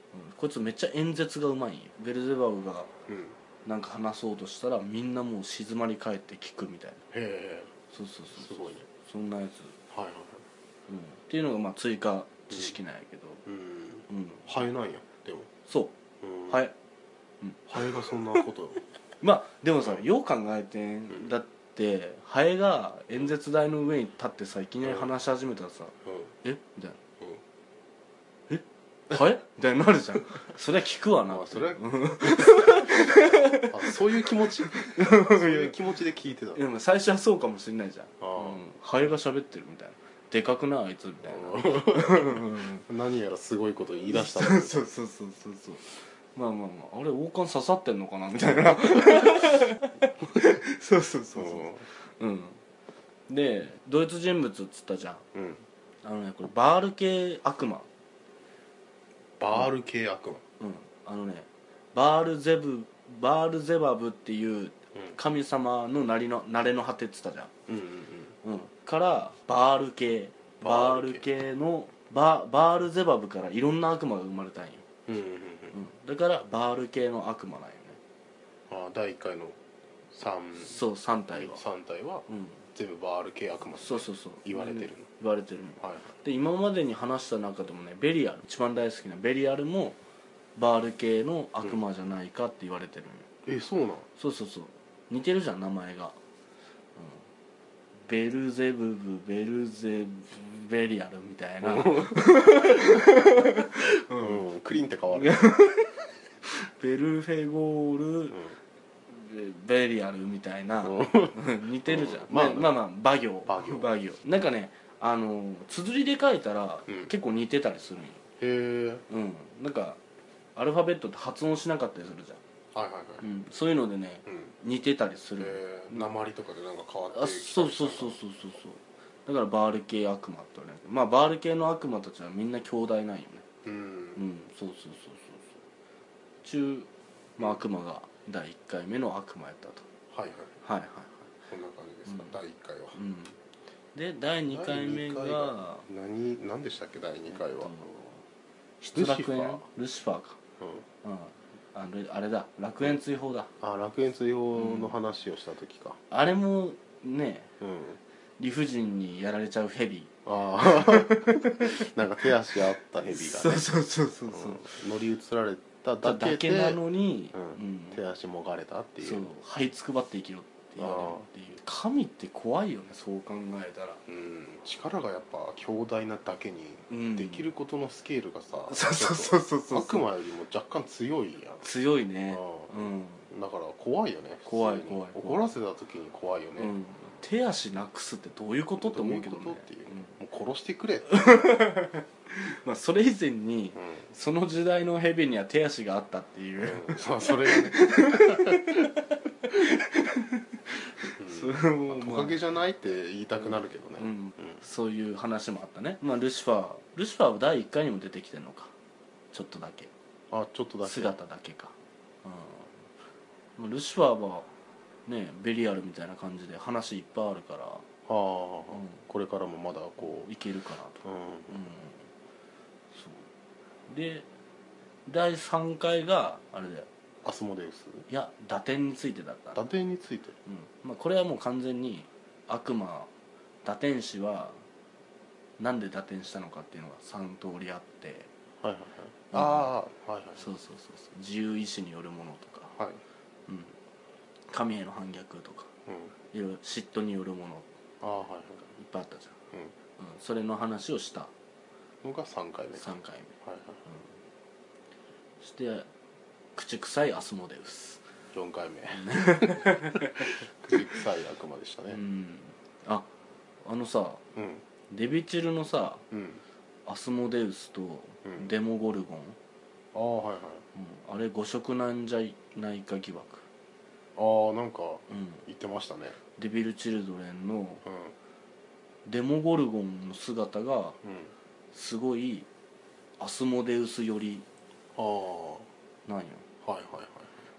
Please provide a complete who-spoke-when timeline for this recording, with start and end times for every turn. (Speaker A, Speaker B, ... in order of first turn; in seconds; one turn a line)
Speaker A: 0.1-2.9
Speaker B: 3.1-3.4
Speaker A: 3.6-7.0
Speaker B: 7.1-7.7
Speaker A: 7.9-9.8
Speaker B: 8.4-8.9
Speaker B: 9.9-10.4
Speaker A: 10.9-13.4
Speaker B: 13.4-15.5
Speaker A: 14.1-14.6
Speaker A: 15.7-15.9
Speaker B: 16.2-16.6
Speaker A: 16.5-16.7
Speaker A: 17.4-18.1
Speaker B: 17.7-18.8
Speaker A: 19.2-27.0
Speaker B: 24.8-25.1
Speaker B: 26.1-26.3
Speaker A: 28.5-34.0
Speaker B: 31.2-36.6
Speaker A: 34.7-35.8
Speaker A: 36.5-42.9
Speaker B: 38.2-38.6
Speaker B: 41.2-44.9
Speaker A: 44.1-52.6
Speaker B: 51.4-51.9
Speaker A: 53.3-55.2
Speaker B: 55.4-55.6
Speaker A: 56.0-57.9
Speaker B: 59.4-60.4
Speaker A: 60.6-67.5
Speaker B: 67.7-68.3
Speaker A: 68.4-74.8
Speaker B: 70.6-71.3
Speaker B: 75.1-75.8
Speaker A: 75.7-78.0
Speaker B: 78.7-79.6
Speaker B: 80.1-85.1
Speaker A: 80.6-81.6
Speaker A: 82.3-82.6
Speaker A: 83.8-90.0
Speaker B: 85.8-86.2
Speaker A: 90.6-93.3
Speaker B: 93.5-94.1
Speaker A: 94.2-96.2
Speaker A: 97.0-97.2
Speaker A: 98.0-104.4
Speaker B: 101.6-103.0
Speaker B: 104.2-105.5
Speaker A: 105.2-108.4
Speaker B: 108.3-108.6
Speaker A: 109.1-118.2
Speaker B: 110.8-112.8
Speaker B: 113.5-113.9
Speaker B: 118.4-119.0
Speaker A: 119.1-120.0
Speaker A: 120.6-122.4
Speaker B: 122.7-123.3
Speaker A: 123.2-126.1
Speaker B: 124.3-124.5
Speaker B: 125.4-128.2
Speaker A: 127.1-133.5
Speaker B: 133.7-134.2
Speaker A: 134.2-135.6
Speaker A: 136.4-139.8
Speaker B: 140.1-140.5
Speaker A: 140.6-141.2
Speaker B: 141.5-143.0
Speaker A: 142.1-142.4
Speaker A: 142.9-143.4
Speaker A: 143.9-145.9
Speaker B: 144.5-147.9
Speaker A: 147.3-148.2
Speaker A: 148.8-150.4
Speaker B: 148.9-149.6
Speaker B: 150.6-150.8
Speaker A: 151.0-153.5
Speaker B: 153.6-156.0
Speaker A: 154.6-154.9
Speaker A: 156.1-157.5
Speaker B: 157.6-158.0
Speaker A: 158.4-160.1
Speaker B: 160.2-163.7
Speaker A: 160.7-161.6
Speaker A: 163.1-164.8
Speaker B: 164.3-166.8
Speaker A: 166.0-168.0
Speaker B: 167.3-169.3
Speaker A: 169.0-174.0
Speaker B: 170.8-171.3
Speaker B: 174.1-181.7
Speaker A: 176.9-177.5
Speaker A: 178.7-180.1
Speaker A: 181.6-183.3
Speaker B: 182.3-186.8
Speaker A: 184.4-185.5
Speaker A: 186.6-190.1
Speaker B: 188.8-191.5
Speaker A: 191.1-202.4
Speaker B: 193.8-194.1
Speaker B: 196.6-198.8
Speaker B: 201.2-204.6
Speaker A: 204.0-208.7
Speaker A: 209.3-209.9
Speaker B: 210.3-211.2
Speaker A: 210.8-212.9
Speaker A: 213.6-214.5
Speaker A: 215.1-217.8
Speaker B: 218.1-220.3
Speaker A: 218.7-219.0
Speaker A: 220.0-222.1
Speaker B: 221.0-221.7
Speaker A: 222.9-223.3
Speaker A: 223.9-224.3
Speaker A: 225.1-226.9
Speaker B: 227.2-228.1
Speaker A: 228.1-229.6
Speaker B: 229.6-230.4
Speaker A: 230.5-233.1
Speaker A: 233.6-234.6
Speaker A: 235.6-238.3
Speaker B: 238.6-240.4
Speaker A: 239.3-239.8
Speaker A: 240.4-242.8
Speaker A: 243.5-243.8
Speaker A: 244.5-245.7
Speaker B: 245.9-246.1
Speaker A: 246.3-247.7
Speaker B: 248.0-248.7
Speaker A: 248.7-249.3
Speaker A: 250.0-251.3
Speaker B: 252.0-253.8
Speaker A: 252.8-253.3
Speaker A: 255.4-255.9
Speaker A: 256.6-258.0
Speaker B: 258.3-262.0
Speaker A: 259.0-260.3
Speaker A: 261.9-263.1
Speaker A: 263.6-264.2
Speaker B: 264.4-264.6
Speaker A: 264.9-266.0
Speaker B: 266.1-266.4
Speaker A: 266.9-269.4
Speaker B: 268.3-268.5
Speaker B: 269.9-270.6
Speaker A: 270.8-273.4
Speaker B: 274.2-276.2
Speaker A: 275.1-275.4
Speaker A: 276.4-277.8
Speaker B: 277.9-278.1
Speaker A: 279.1-281.0
Speaker B: 281.0-281.3
Speaker A: 281.7-282.5
Speaker A: 283.2-284.4
Speaker B: 285.0-285.7
Speaker A: 286.1-286.4
Speaker B: 286.6-287.3